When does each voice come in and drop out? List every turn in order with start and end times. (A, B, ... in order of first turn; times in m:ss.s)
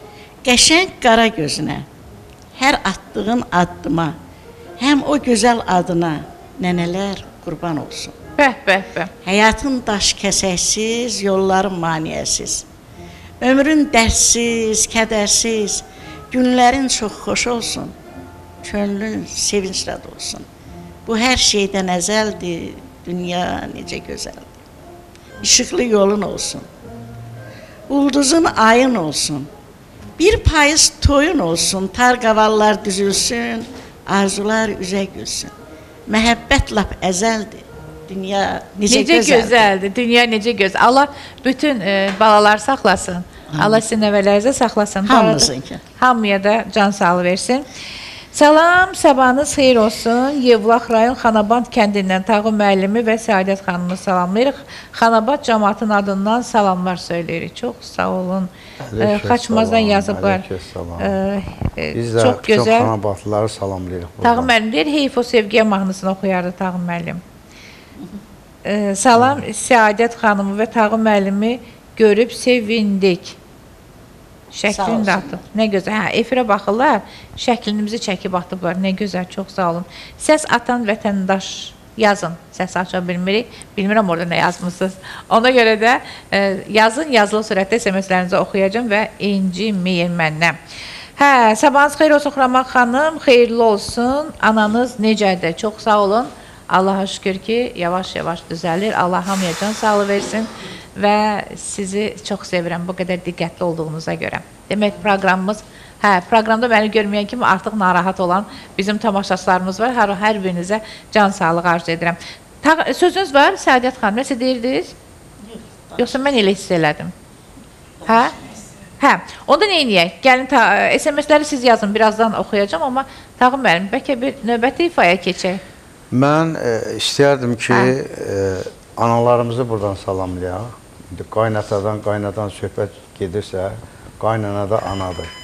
0:00.4-0:01.8 A
0:02.5-0:04.2 A
0:04.8-0:08.2 A
0:08.4-0:09.1 B
0:09.2-0:12.6 A
0:13.4-0:17.9 A
0:18.6-0:20.4 A
0:21.0-0:24.6 A
0:25.4-0:26.7 A
0:27.9-0:29.5 A
0:30.2-0:35.5 A
0:36.1-0:39.7 A
0:38.9-0:47.6 B
0:43.5-0:43.8 A
0:45.0-0:45.8 A
0:48.3-1:00.4 B
0:58.9-1:01.2 C
1:01.0-1:02.9 B
1:01.9-1:04.5 C
1:04.2-1:07.2 B
1:08.6-1:13.4 B
1:14.5-1:30.6 B
1:14.7-1:15.4 A
1:31.2-1:54.9 B
1:55.4-1:56.2 A
1:56.0-1:57.1 B
1:58.0-1:58.6 A
1:58.0-1:58.3 B
1:59.0-2:05.6 B
2:06.1-2:15.3 C